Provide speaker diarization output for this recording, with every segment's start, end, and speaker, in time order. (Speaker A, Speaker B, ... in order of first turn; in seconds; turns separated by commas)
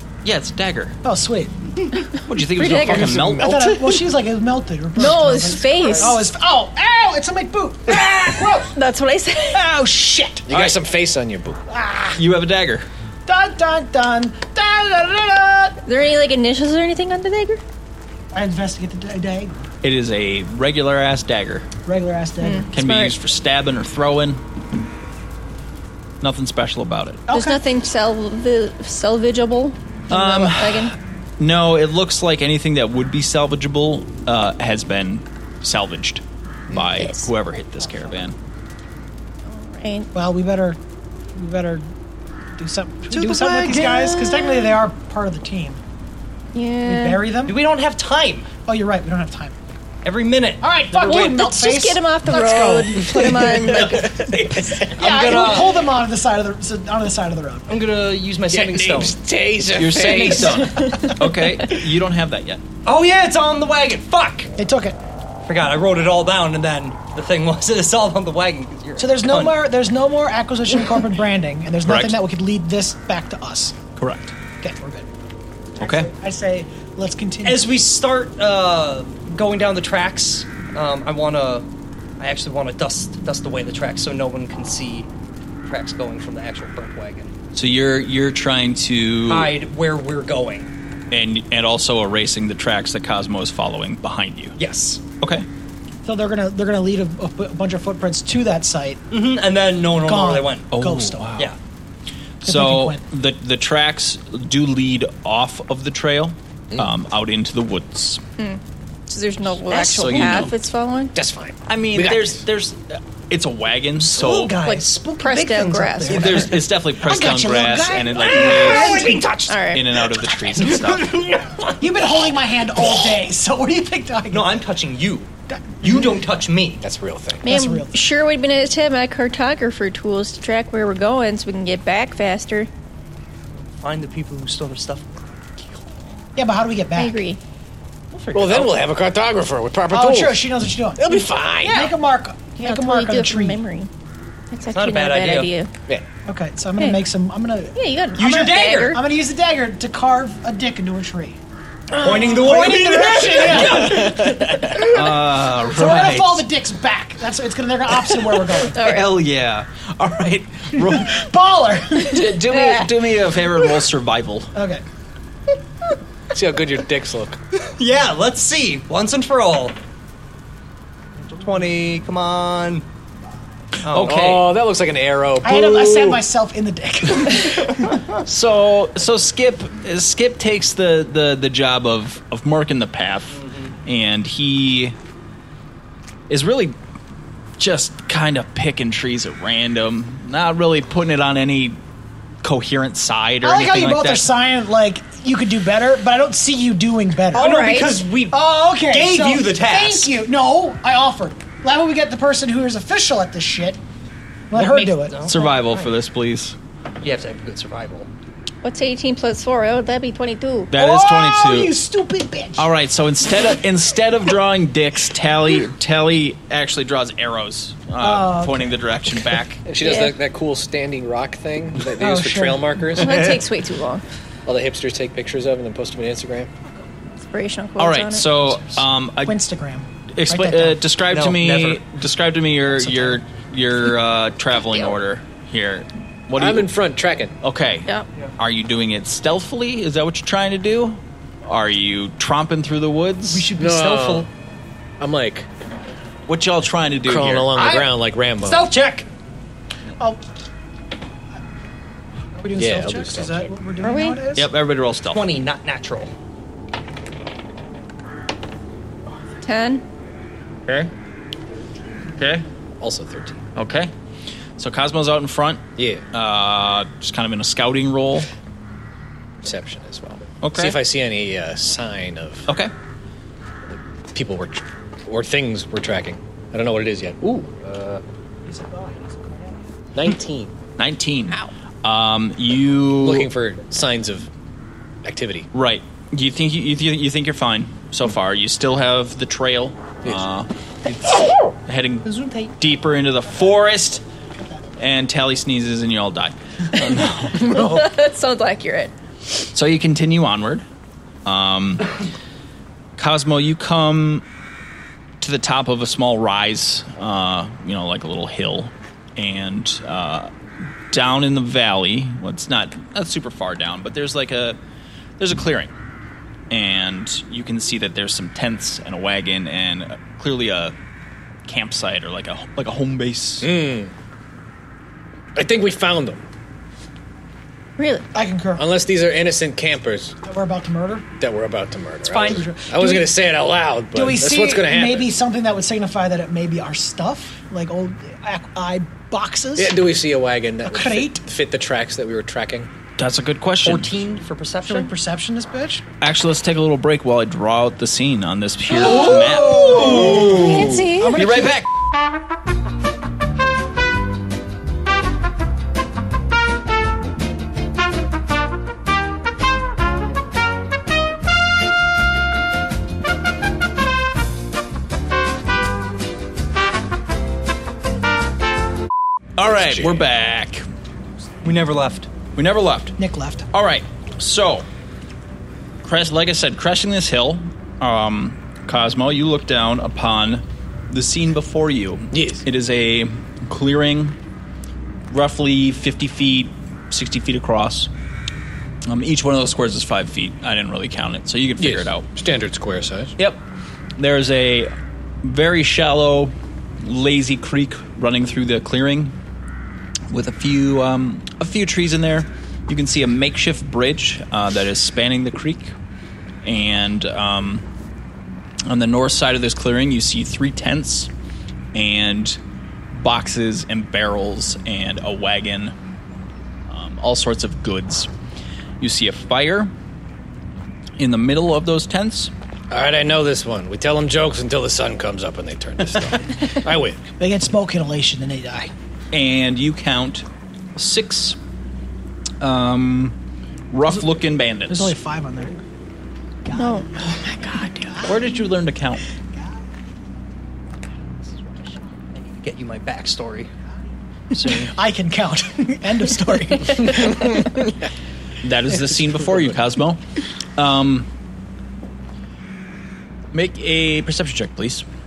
Speaker A: 0.2-0.9, Speaker B: 1.0-1.7, Speaker A: 2.1-3.9, Speaker C: 2.5-3.2, Speaker D: 2.8-3.7, Speaker B: 3.2-8.7, Speaker C: 5.0-6.2, Speaker C: 8.7-9.6, Speaker B: 9.5-10.4, Speaker D: 10.4-11.6, Speaker A: 10.5-10.8, Speaker B: 11.7-12.2, Speaker A: 12.2-12.9, Speaker B: 13.2-15.8, Speaker C: 15.8-17.6, Speaker B: 18.3-19.7, Speaker A: 19.8-21.7, Speaker B: 21.9-22.7, Speaker C: 22.4-23.1, Speaker A: 22.7-24.4, Speaker A: 26.2-27.2, Speaker B: 27.3-27.6, Speaker C: 27.3-30.9, Speaker A: 30.1-38.3, Speaker C: 36.8-37.3, Speaker C: 39.5-40.1, Speaker B: 40.1-40.8, Speaker B: 41.3-41.8, Speaker B: 42.6-45.8, Speaker E: 43.1-43.8, Speaker C: 43.4-44.8, Speaker C: 46.5-47.3, Speaker B: 46.8-47.6, Speaker E: 47.5-48.5, Speaker B: 48.6-49.5, Speaker E: 50.0-50.6, Speaker B: 50.6-54.2, Speaker C: 50.9-54.4, Speaker E: 54.8-55.9, Speaker B: 55.0-57.8, Speaker E: 57.7-59.2, Speaker D: 58.5-60.9, Speaker A: 59.7-62.6, Speaker C: 60.3-61.1, Speaker E: 62.8-64.5, Speaker B: 64.6-65.0, Speaker E: 65.5-69.6, Speaker B: 69.0-73.8, Speaker A: 71.8-72.2, Speaker A: 74.0-74.3, Speaker B: 74.6-75.1, Speaker B: 75.8-77.7, Speaker A: 75.8-76.1, Speaker E: 77.4-81.7, Speaker E: 82.2-85.1, Speaker E: 85.7-87.3, Speaker A: 87.5-89.5, Speaker E: 89.3-90.7, Speaker A: 91.1-94.6, Speaker E: 94.6-95.0, Speaker A: 95.2-95.5, Speaker B: 96.0-99.0, Speaker E: 99.1-100.7, Speaker B: 100.0-101.3, Speaker A: 100.7-101.5, Speaker A: 102.4-108.2, Speaker B: 102.4-103.0, Speaker C: 108.4-111.1, Speaker A: 109.7-110.5, Speaker D: 110.0-110.5, Speaker D: 111.1-112.4, Speaker A: 111.7-114.6, Speaker E: 114.0-116.6, Speaker B: 114.2-114.8, Speaker C: 114.6-116.5, Speaker B: 116.1-116.4, Speaker A: 116.1-119.1, Speaker B: 117.0-119.3, Speaker E: 118.2-120.0, Speaker C: 119.5-119.8, Speaker A: 119.7-121.3, Speaker E: 120.6-121.7, Speaker B: 121.8-124.6, Speaker E: 124.3-125.3, Speaker B: 125.5-126.0, Speaker E: 125.8-126.8, Speaker D: 126.8-127.5, Speaker C: 127.4-132.7, Speaker B: 127.4-128.0, Speaker E: 133.8-135.1, Speaker B: 136.3-137.2, Speaker C: 136.9-137.4, Speaker E: 138.1-138.8, Speaker D: 138.3-140.4, Speaker B: 139.9-143.6, Speaker D: 141.0-141.9, Speaker E: 141.6-141.9, Speaker C: 142.6-143.9, Speaker C: 144.5-145.7, Speaker E: 144.7-145.5, Speaker B: 146.2-151.4, Speaker C: 147.7-149.0, Speaker E: 148.2-149.0, Speaker B: 151.9-159.0, Speaker E: 152.0-154.1, Speaker D: 153.8-154.9, Speaker A: 154.7-156.4, Speaker A: 158.7-161.2, Speaker C: 158.8-159.0, Speaker B: 160.7-162.3, Speaker A: 162.0-164.5, Speaker C: 162.5-162.8, Speaker B: 164.5-164.8, Speaker D: 166.3-167.4, Speaker E: 167.6-169.8, Speaker E: 171.2-172.8, Speaker E: 173.8-174.4, Speaker A: 173.9-174.5, Speaker D: 174.0-176.2, Speaker B: 175.4-178.0, Speaker A: 178.1-184.9, Speaker E: 183.4-183.7, Speaker A: 186.3-186.8, Speaker A: 187.6-191.8, Speaker A: 192.4-194.2, Speaker B: 193.4-203.8, Speaker C: 197.3-198.0, Speaker E: 197.3-200.1, Speaker B: 204.5-205.2, Speaker E: 204.5-205.9, Speaker A: 205.2-206.6, Speaker E: 207.0-208.1, Speaker C: 208.6-210.7, Speaker A: 210.7-211.7, Speaker B: 210.7-212.7, Speaker A: 212.6-219.6, Speaker B: 218.0-218.8, Speaker D: 219.6-223.4, Speaker C: 219.8-220.2, Speaker B: 222.0-222.7, Speaker C: 222.9-224.0, Speaker A: 223.0-223.4, Speaker D: 224.4-226.5, Speaker C: 227.2-228.4, Speaker A: 227.8-229.4, Speaker B: 229.2-230.8, Speaker A: 230.1-236.7, Speaker E: 231.1-231.8, Speaker B: 232.8-233.2, Speaker D: 236.3-237.3, Speaker A: 237.4-237.9, Speaker A: 238.4-243.5, Speaker E: 243.3-244.3, Speaker D: 243.5-244.3, Speaker D: 245.0-245.5, Speaker A: 246.3-247.5, Speaker D: 247.1-248.6, Speaker B: 247.5-249.1, Speaker B: 252.3-254.5, Speaker D: 252.5-253.4, Speaker C: 253.8-254.2, Speaker A: 254.3-255.2, Speaker E: 255.1-256.1, Speaker C: 259.4-259.8, Speaker A: 262.1-262.4, Speaker D: 262.8-263.4, Speaker A: 263.5-263.9, Speaker A: 264.6-268.3, Speaker D: 265.8-266.1, Speaker D: 269.4-272.5, Speaker A: 270.4-270.8, Speaker D: 274.1-278.0, Speaker B: 278.4-279.6, Speaker D: 279.9-280.5, Speaker A: 280.8-283.3, Speaker D: 283.0-284.3, Speaker D: 285.0-285.5, Speaker A: 285.5-294.0, Speaker E: 292.0-292.5, Speaker A: 294.8-297.8, Speaker C: 297.3-298.9, Speaker A: 299.5-300.6, Speaker A: 301.2-301.9, Speaker A: 303.0-304.2, Speaker A: 305.2-310.3, Speaker A: 310.9-314.6, Speaker A: 315.2-315.7, Speaker A: 316.5-320.7, Speaker A: 321.4-323.5, Speaker D: 323.4-323.9, Speaker D: 325.3-326.2, Speaker C: 327.8-328.1, Speaker B: 328.1-328.6, Speaker D: 328.6-330.2, Speaker B: 330.2-331.1, Speaker D: 331.2-335.1, Speaker B: 332.1-333.1, Speaker B: 333.9-339.8, Speaker D: 339.6-342.7, Speaker B: 340.6-341.2, Speaker A: 343.0-343.9, Speaker E: 343.6-344.9, Speaker B: 344.6-345.8, Speaker A: 346.0-351.7, Speaker B: 348.7-351.6, Speaker C: 348.9-351.2, Speaker A: 369.4-370.7, Speaker E: 371.4-372.1, Speaker A: 372.3-372.9, Speaker B: 373.0-373.5, Speaker A: 373.5-374.6, Speaker A: 375.8-384.1, Speaker D: 382.1-382.4, Speaker A: 385.1-387.9, Speaker A: 388.9-392.0, Speaker D: 391.6-393.1, Speaker A: 394.0-394.7, Speaker A: 395.2-399.1, Speaker A: 400.1-405.7, Speaker A: 406.4-407.6, Speaker A: 408.6-411.1, Speaker A: 411.7-412.4, Speaker A: 412.9-415.7, Speaker A: 416.7-418.1, Speaker A: 418.8-419.7, Speaker A: 421.0-422.3, Speaker D: 422.7-427.0, Speaker B: 427.2-428.7, Speaker A: 429.1-431.4, Speaker A: 432.4-433.1, Speaker A: 433.7-434.9, Speaker B: 434.7-435.6, Speaker B: 436.4-437.3, Speaker C: 436.6-438.1, Speaker B: 437.8-438.1, Speaker A: 438.0-439.0, Speaker E: 442.1-443.5, Speaker B: 444.3-447.4, Speaker E: 444.4-444.7, Speaker A: 448.4-450.0, Speaker A: 450.6-451.1, Speaker A: 453.3-454.8